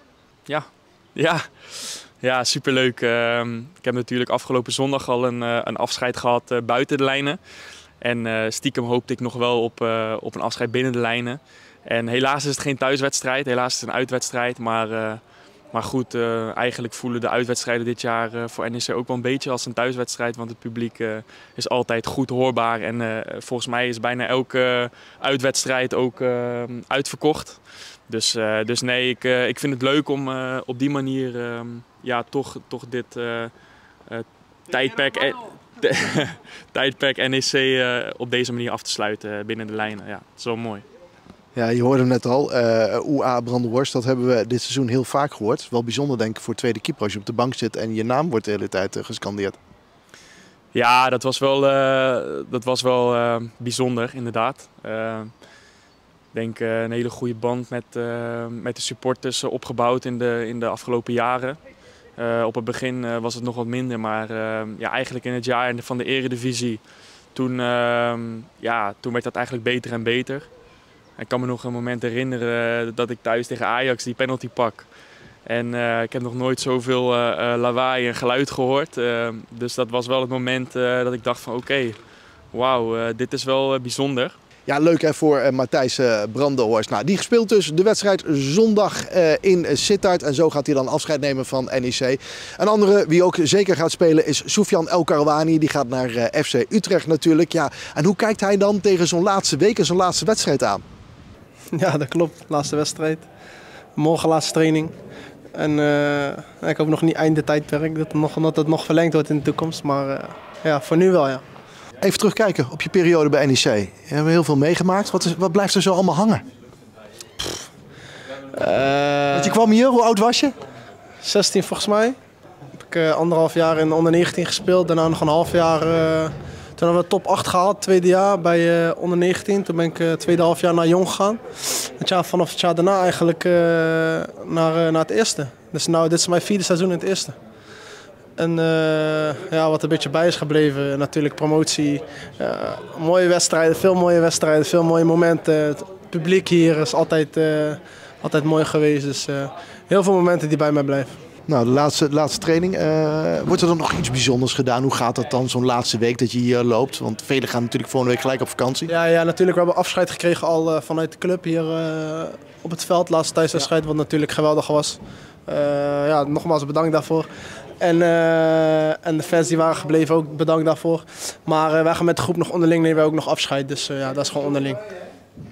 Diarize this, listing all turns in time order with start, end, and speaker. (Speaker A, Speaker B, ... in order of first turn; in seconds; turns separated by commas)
Speaker A: 0.5-7.4, Speaker A: 8.0-15.2, Speaker A: 15.7-33.5, Speaker A: 34.1-40.8, Speaker B: 41.5-49.6, Speaker A: 50.7-55.3, Speaker A: 56.3-61.6, Speaker A: 62.2-66.8, Speaker A: 67.3-70.5, Speaker A: 71.2-74.9, Speaker A: 75.5-82.0, Speaker A: 82.5-84.3, Speaker B: 84.7-100.8, Speaker C: 101.7-103.2, Speaker C: 104.0-104.9, Speaker C: 105.5-111.4, Speaker B: 112.0-116.4, Speaker C: 118.5-119.6, Speaker B: 119.3-120.5, Speaker C: 121.2-122.2, Speaker C: 122.7-137.3, Speaker C: 138.4-151.2, Speaker B: 151.5-158.9, Speaker C: 158.9-167.3, Speaker C: 167.8-174.8